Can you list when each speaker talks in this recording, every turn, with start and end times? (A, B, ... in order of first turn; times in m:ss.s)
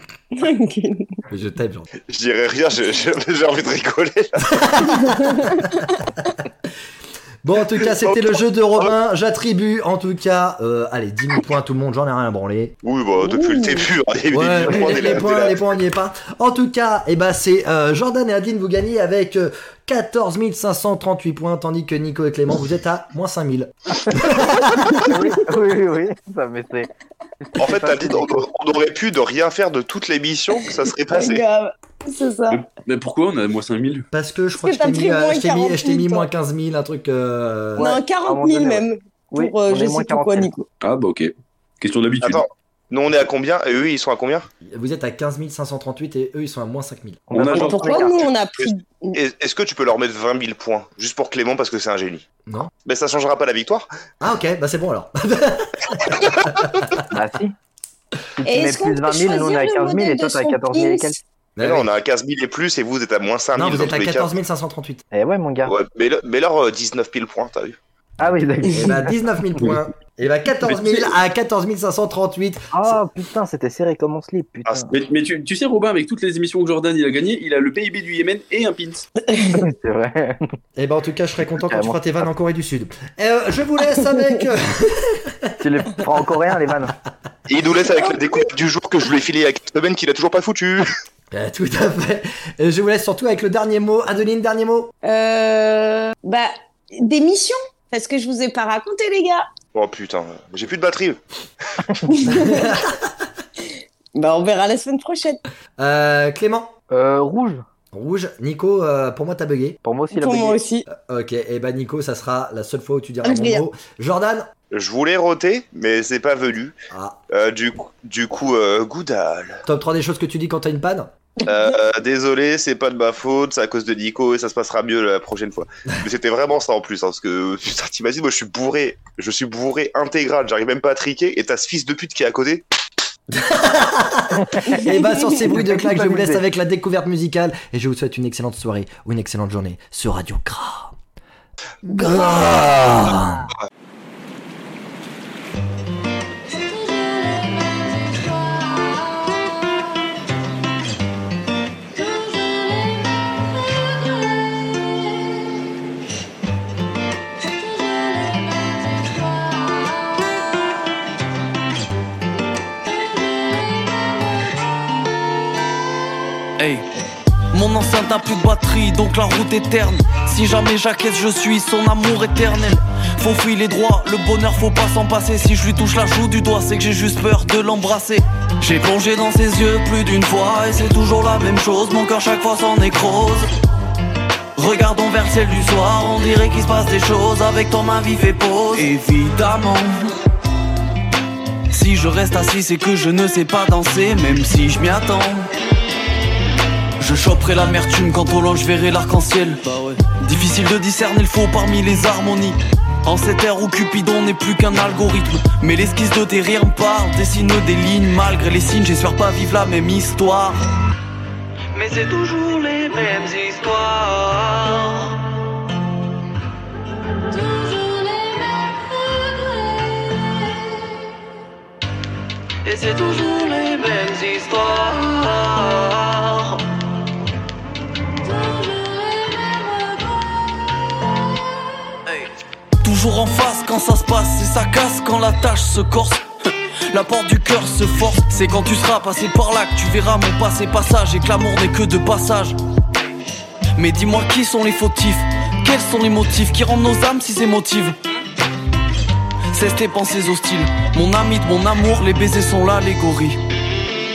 0:00.3-0:01.2 A
0:01.3-0:01.9 B
0:02.0-0:04.6 C
0:04.5-0:05.5 B
0:04.9-0:05.7 A
0:07.4-0:12.8 B
0:07.9-0:08.2 C
0:12.8-0:15.7 C
0:13.2-0:13.9 A
0:14.3-0:25.1 B
0:25.0-0:26.9 D
0:27.4-0:28.4 D
0:27.6-0:31.4 C
0:31.1-0:32.6 A
0:32.5-0:34.1 E
0:34.1-0:37.9 B
0:34.6-0:36.3 A
0:37.8-0:40.7 D
0:37.8-0:40.5 A
0:40.8-0:42.4 E
0:42.2-0:44.5 C
0:44.6-0:47.2 B
0:47.3-0:48.2 D
0:47.3-0:48.0 E
0:47.5-0:49.2 A
0:48.6-0:52.2 C
0:52.5-0:52.7 B
0:52.8-0:53.9 C
0:54.2-0:57.0 B
0:56.1-0:56.3 C
0:57.1-0:57.6 D
0:58.4-1:01.2 D
0:58.4-1:01.2 A
1:01.6-1:01.9 B
1:01.6-1:04.3 C
1:03.6-1:05.0 B
1:05.1-1:05.8 D
1:05.7-1:07.8 C
1:08.2-1:09.2 D
1:08.7-1:13.0 B
1:12.7-1:14.9 D
1:14.9-1:19.1 E
1:19.3-1:19.6 A
1:19.4-1:20.4 D
1:20.8-1:26.2 B
1:21.6-1:22.0 D
1:25.6-1:26.9 D
1:27.5-1:30.9 C
1:28.0-1:28.4 A
1:31.3-1:34.9 B
1:35.0-1:39.5 A
1:39.7-1:41.2 C
1:42.1-1:42.7 A
1:42.2-1:43.1 B
1:44.2-1:45.4 A
1:45.8-1:46.7 B
1:46.9-1:47.6 D
1:47.9-1:49.8 B
1:49.8-1:50.6 D
1:50.1-1:50.9 A
1:50.9-1:54.5 B
1:53.2-1:53.6 A
1:54.7-1:56.8 C
1:56.9-1:57.2 B
1:57.3-1:59.6 C
1:59.7-2:01.1 B
2:01.4-2:12.6 C
2:13.3-2:21.0 B
2:14.4-2:16.4 D
2:14.6-2:15.5 A
2:21.8-2:23.5 B
2:46.6-2:46.9 F
2:47.5-3:03.5 F
3:04.6-3:10.1 F
3:11.7-3:15.5 F
3:17.0-3:30.6 F
3:31.7-3:35.3 F
3:42.6-3:46.6 F
3:52.1-3:52.3 F
3:52.8-4:02.6 F
4:03.8-4:08.0 F
4:09.5-4:13.4 F